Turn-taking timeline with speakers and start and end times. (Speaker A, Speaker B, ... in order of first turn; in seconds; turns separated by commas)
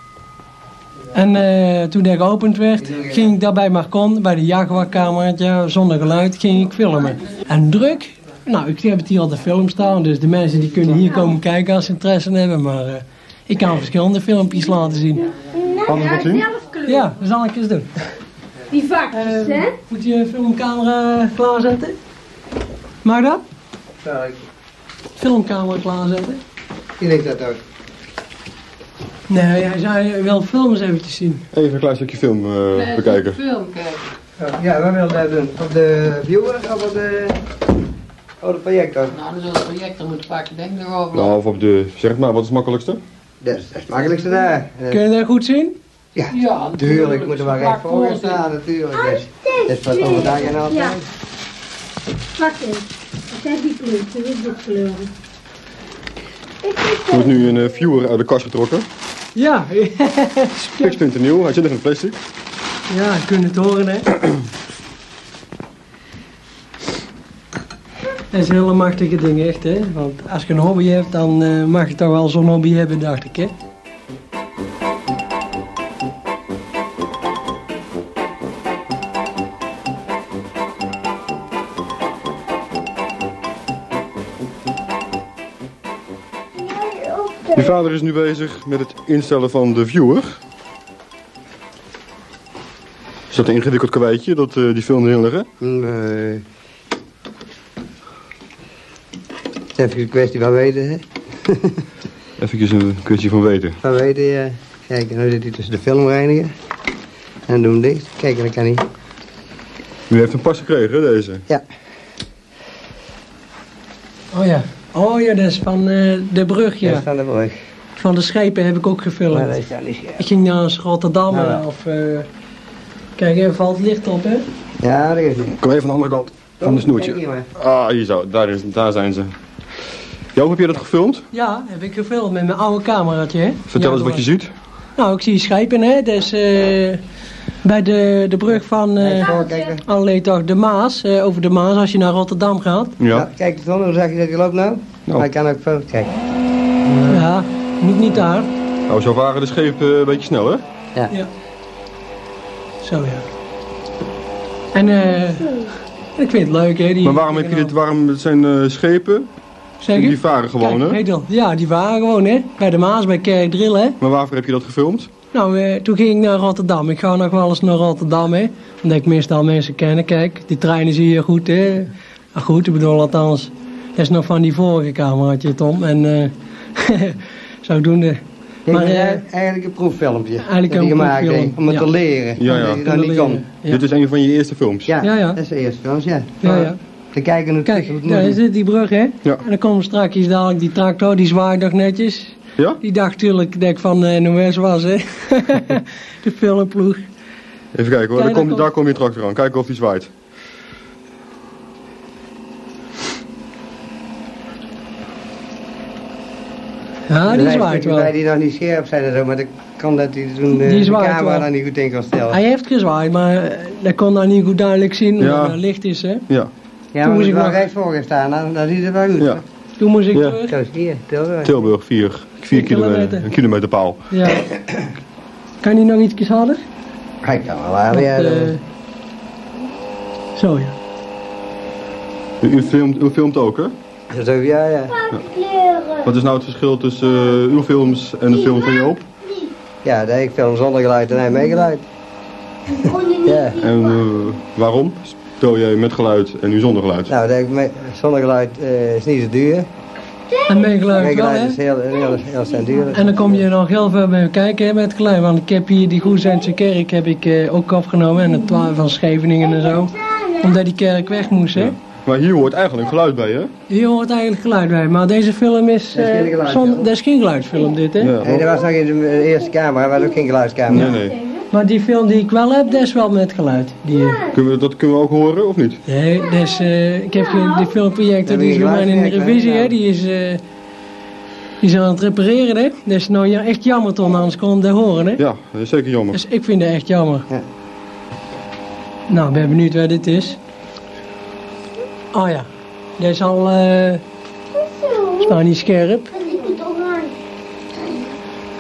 Speaker A: 1.1-15.3, Speaker B: 2.8-3.2, Speaker C: 15.5-16.9, Speaker D: 15.8-16.5, Speaker A: 16.8-17.9, Speaker C: 18.7-19.7, Speaker A: 19.1-21.9, Speaker A: 23.0-23.4, Speaker B: 24.0-24.4, Speaker A: 25.2-26.4, Speaker B: 27.0-27.6, Speaker A: 29.3-31.4, Speaker D: 31.5-33.4, Speaker E: 32.7-34.0, Speaker B: 34.4-37.4, Speaker B: 38.4-39.2, Speaker E: 39.1-41.3, Speaker D: 41.1-43.0, Speaker B: 43.4-45.0, Speaker A: 44.9-45.8, Speaker B: 46.1-51.0, Speaker E: 46.3-48.5, Speaker C: 48.9-51.0, Speaker C: 52.4-54.9, Speaker A: 54.6-55.0, Speaker C: 56.6-57.3, Speaker D: 57.0-58.9, Speaker A: 59.4-61.0, Speaker D: 60.8-62.2, Speaker A: 62.9-64.1, Speaker A: 68.3-73.5, Speaker C: 86.5-87.7, Speaker D: 87.5-90.4, Speaker D: 93.3-95.5, Speaker B: 95.6-96.4, Speaker B: 99.8-101.8, Speaker D: 102.4-103.8, Speaker B: 103.8-106.5, Speaker B: 107.5-108.8, Speaker D: 110.1-111.4, Speaker A: 114.3-117.0, Speaker B: 116.8-117.5, Speaker A: 118.0-119.5, Speaker B: 119.3-120.2, Speaker A: 120.2-122.3, Speaker B: 121.3-121.6, Speaker A: 123.2-124.5, Speaker B: 124.8-125.5, Speaker D: 125.5-129.3, Speaker B: 126.6-127.5, Speaker D: 130.3-131.2, Speaker A: 131.3-134.2, Speaker D: 133.7-134.5, Speaker A: 135.0-137.0, Speaker A: 137.6-143.0, Speaker B: 139.0-139.8, Speaker D: 143.0-143.3, Speaker B: 143.1-146.1, Speaker A: 147.0-148.5, Speaker D: 148.9-150.6, Speaker A: 152.8-153.2, Speaker A: 154.7-157.7, Speaker D: 157.0-159.3, Speaker A: 159.8-164.0, Speaker D: 159.9-161.0, Speaker D: 164.0-165.1, Speaker A: 165.3-179.2, Speaker B: 178.7-183.4, Speaker A: 180.4-181.9, Speaker D: 182.4-182.8, Speaker A: 182.4-183.8, Speaker D: 183.7-185.0, Speaker B: 184.9-188.4, Speaker A: 185.0-185.4, Speaker A: 186.4-186.8, Speaker A: 187.6-197.0, Speaker D: 197.7-200.1, Speaker A: 198.2-198.7, Speaker A: 207.1-208.1, Speaker B: 207.3-212.4, Speaker A: 210.5-211.5, Speaker A: 212.3-216.2, Speaker D: 215.2-215.6, Speaker B: 216.9-219.4, Speaker A: 217.0-217.6, Speaker A: 219.8-220.5, Speaker D: 220.1-220.4, Speaker B: 220.5-221.7, Speaker D: 221.4-224.0, Speaker A: 222.5-223.3, Speaker A: 224.1-224.4, Speaker A: 225.6-226.6, Speaker B: 227.2-228.5, Speaker A: 227.9-228.6, Speaker A: 230.3-230.7, Speaker D: 232.4-233.7, Speaker B: 234.1-234.9, Speaker C: 234.9-236.1, Speaker D: 236.0-239.0, Speaker C: 238.4-239.5, Speaker B: 239.8-241.8, Speaker C: 242.7-244.0, Speaker B: 243.2-243.6, Speaker D: 243.6-247.1, Speaker B: 247.1-249.7, Speaker C: 250.3-250.7, Speaker A: 250.5-251.6, Speaker B: 250.9-253.4, Speaker A: 252.9-261.8, Speaker C: 259.8-260.3, Speaker D: 261.6-263.5, Speaker A: 263.7-268.1, Speaker B: 265.9-266.9, Speaker D: 268.0-268.4, Speaker B: 268.2-270.9, Speaker D: 270.7-271.1, Speaker C: 270.9-271.4, Speaker A: 271.5-274.2, Speaker D: 274.3-275.8, Speaker A: 275.9-280.4, Speaker B: 278.2-279.7, Speaker A: 281.6-285.2, Speaker D: 285.2-286.2, Speaker A: 286.1-287.3, Speaker A: 289.1-290.4, Speaker A: 292.1-294.0, Speaker C: 294.5-295.4, Speaker A: 295.2-296.1, Speaker C: 296.1-297.2